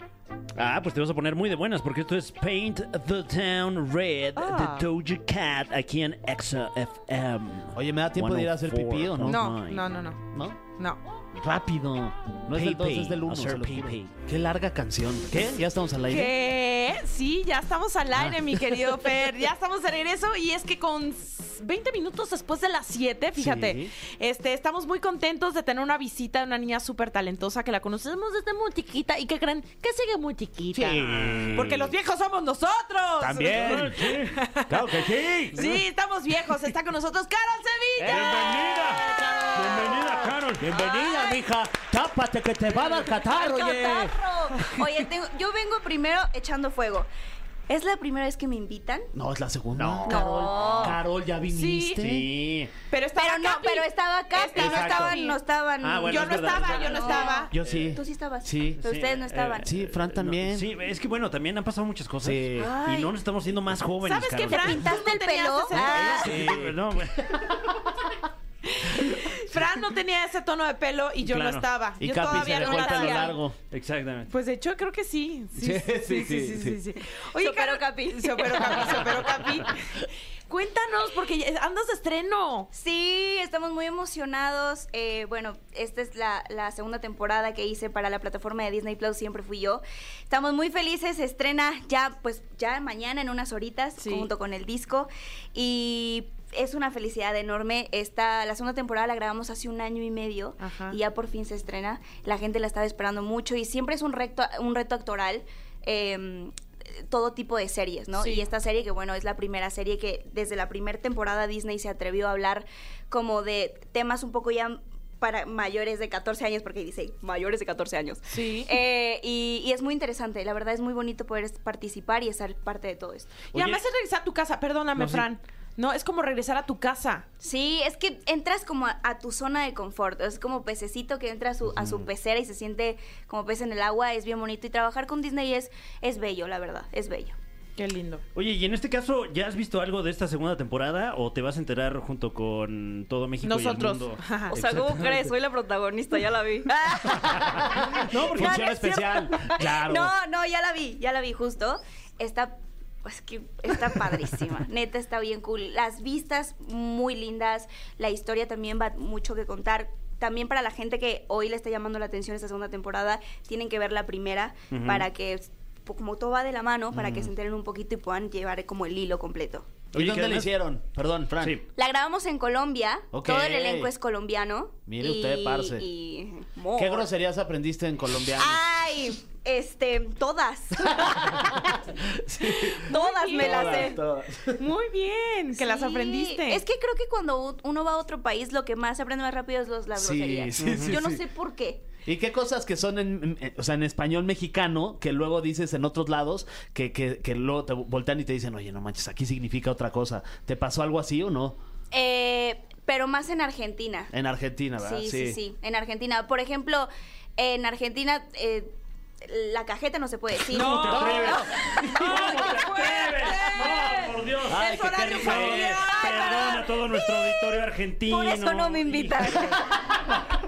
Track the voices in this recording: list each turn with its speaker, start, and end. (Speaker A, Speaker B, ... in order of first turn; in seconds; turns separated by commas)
Speaker A: 0.6-9.9, Speaker B: 4.4-4.9, Speaker C: 7.8-9.6, Speaker B: 9.3-10.2, Speaker C: 10.3-10.6, Speaker C: 11.3-16.3, Speaker A: 12.5-14.2, Speaker B: 16.1-35.0, Speaker C: 18.1-18.8, Speaker C: 23.4-23.9, Speaker C: 30.7-31.9, Speaker A: 31.1-31.9, Speaker C: 33.2-34.1, Speaker A: 33.5-35.8, Speaker C: 34.7-35.7, Speaker B: 35.5-40.3, Speaker C: 38.0-38.9, Speaker A: 38.0-40.7, Speaker C: 40.6-44.1, Speaker D: 40.7-41.4, Speaker D: 43.3-47.1, Speaker D: 47.7-49.1, Speaker C: 49.1-52.3, Speaker A: 49.8-51.0, Speaker D: 50.1-51.0, Speaker B: 51.5-52.1, Speaker A: 52.0-52.7, Speaker B: 52.9-55.4, Speaker D: 53.1-59.7, Speaker C: 54.5-55.1, Speaker A: 55.8-57.9, Speaker B: 56.1-57.5, Speaker C: 57.5-58.8, Speaker A: 58.8-65.0, Speaker C: 59.6-60.7, Speaker C: 62.2-62.8, Speaker D: 62.6-63.1, Speaker B: 64.0-66.4, Speaker D: 64.5-66.3, Speaker C: 65.8-66.8, Speaker A: 65.8-67.6, Speaker C: 67.4-67.8, Speaker B: 68.8-73.4, Speaker A: 71.2-71.7, Speaker C: 72.0-73.6, Speaker D: 72.3-73.4, Speaker A: 73.6-74.3, Speaker B: 74.3-82.7, Speaker C: 75.5-76.8, Speaker D: 77.4-79.0, Speaker D: 82.7-123.4, Speaker B: 94.0-94.3, Speaker B: 100.6-101.0, Speaker B: 118.3-118.8, Speaker B: 123.5-127.3, Speaker A: 123.5-123.8, Speaker A: 125.0-125.3, Speaker D: 127.4-137.4, Speaker B: 137.8-138.2, Speaker A: 138.3-145.3, Speaker B: 143.4-144.6, Speaker D: 144.5-169.7, Speaker C: 147.1-150.1, Speaker A: 147.9-148.9, Speaker A: 164.7-165.1, Speaker C: 166.9-167.3, Speaker A: 169.9-170.5, Speaker C: 169.9-171.6, Speaker D: 171.8-177.1, Speaker C: 173.1-173.9, Speaker C: 174.9-175.8, Speaker C: 176.8-178.6, Speaker D: 178.4-181.4, Speaker C: 180.9-184.7, Speaker D: 182.8-184.0, Speaker B: 182.9-183.9, Speaker B: 184.6-186.6, Speaker D: 185.6-191.8, Speaker C: 190.0-191.2, Speaker C: 192.1-201.6, Speaker D: 201.9-204.1, Speaker C: 204.1-205.4, Speaker D: 204.8-208.7, Speaker D: 209.2-212.4, Speaker A: 210.5-219.8, Speaker B: 210.5-216.7, Speaker C: 210.9-211.8, Speaker C: 214.4-216.0, Speaker D: 216.1-219.7